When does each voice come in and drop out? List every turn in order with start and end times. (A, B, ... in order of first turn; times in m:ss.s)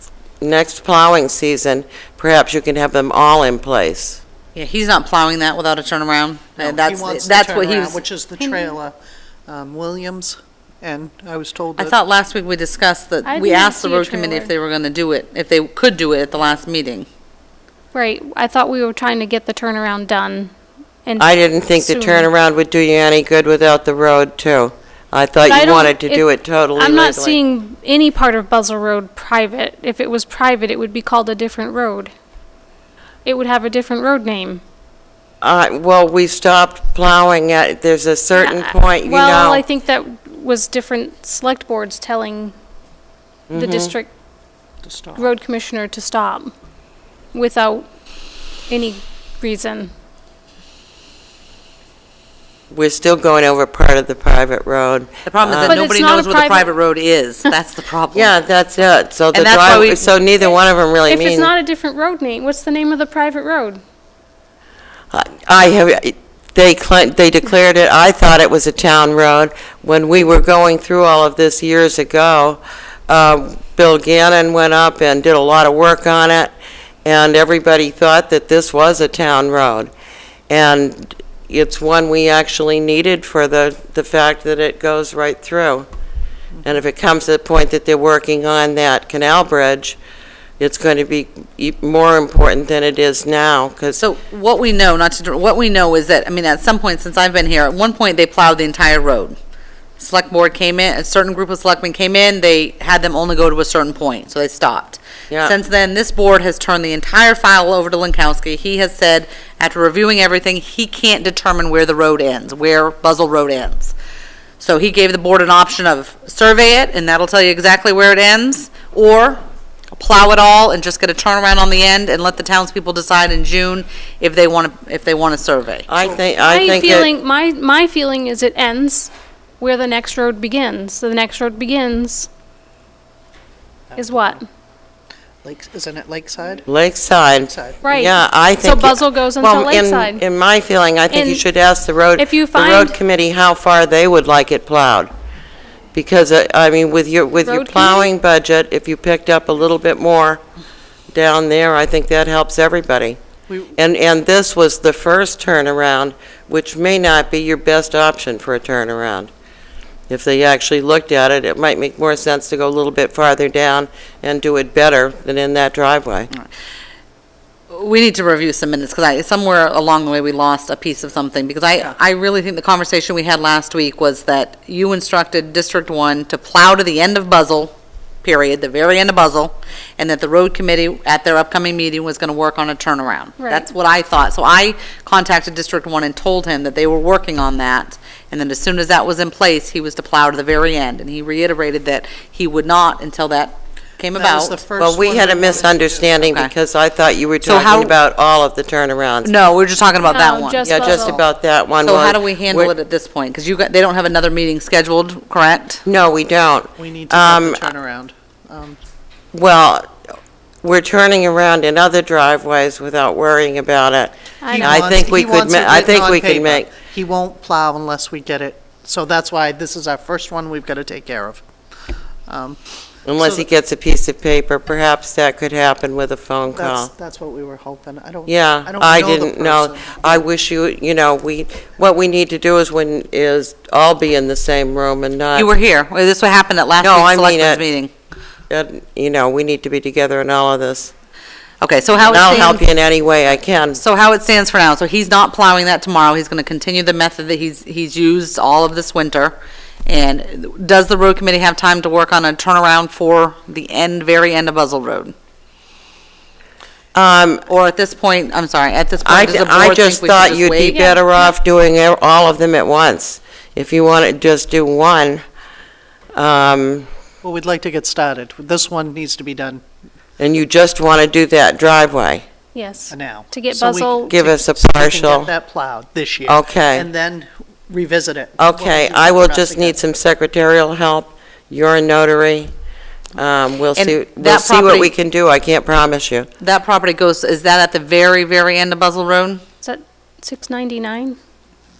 0:00.4-0:04.2 A
0:04.5-0:08.0 B
0:06.6-0:08.9 C
0:08.4-0:08.7 D
0:09.5-0:12.0 C
0:11.8-0:17.0 B
0:13.2-0:14.5 D
0:17.9-0:20.5 D
0:21.0-0:22.3 D
0:21.2-0:27.4 A
0:25.4-0:32.1 D
0:33.2-0:34.6 D
0:35.4-0:39.6 A
0:38.3-0:42.5 D
0:43.5-0:43.9 A
0:43.5-0:44.1 D
0:44.8-0:45.3 C
0:45.1-0:46.5 D
0:47.3-0:47.8 D
0:48.7-0:49.9 D
0:52.7-0:55.8 A
0:55.2-0:58.3 B
0:55.7-0:56.7 D
0:58.1-1:01.5 A
0:59.3-1:00.2 B
1:01.1-1:03.8 D
1:05.1-1:16.5 A
1:17.0-1:19.9 A
1:20.5-1:25.9 A
1:26.6-1:30.0 A
1:30.6-1:34.0 A
1:34.0-1:39.4 B
1:40.0-1:53.9 B
1:54.6-1:59.4 B
1:59.9-2:05.8 B
2:05.9-2:07.1 A
2:06.4-2:12.3 D
2:13.9-2:14.4 C
2:14.0-2:14.4 D
2:15.4-2:16.6 C
2:16.7-2:25.1 A
2:17.5-2:17.8 C
2:17.8-2:20.2 D
2:21.1-2:21.4 D
2:22.2-2:23.0 D
2:25.9-2:30.4 A
2:27.4-2:28.1 D
2:31.1-2:33.2 A
2:33.8-2:39.3 A
2:40.1-2:46.3 A
2:47.7-3:14.6 B
3:03.4-3:03.7 D
3:14.1-3:16.2 C
3:14.8-3:19.3 A
3:16.2-3:16.5 B
3:17.4-3:17.9 B
3:19.2-3:21.2 B
3:20.0-3:21.2 D
3:20.6-3:22.7 A
3:21.8-3:25.8 B
3:25.8-3:27.6 A
3:26.8-3:28.8 C
3:29.3-3:29.9 A
3:30.6-3:36.7 A
3:34.4-3:35.0 D
3:34.5-3:41.4 C
3:42.3-3:42.6 C
3:43.0-3:46.9 A
3:43.2-3:43.4 C
3:46.5-3:50.2 C
3:48.3-3:55.5 A
3:55.3-3:57.9 B
3:56.8-3:57.6 A
3:58.5-4:00.9 A
4:01.6-4:02.6 B
4:02.0-4:03.8 A
4:03.7-4:09.3 B
4:09.8-4:15.1 B
4:16.9-4:17.4 A
4:17.5-4:21.3 B
4:19.0-4:25.2 A
4:26.2-4:26.9 A
4:27.2-4:29.6 C
4:30.2-4:32.2 A
4:32.5-4:34.3 D
4:32.9-4:39.8 C
4:34.1-4:35.3 A
4:36.3-4:36.8 A
4:38.4-4:42.5 A
4:43.2-4:46.3 A
4:43.8-4:44.9 B
4:46.4-4:49.4 B
4:49.6-4:51.2 D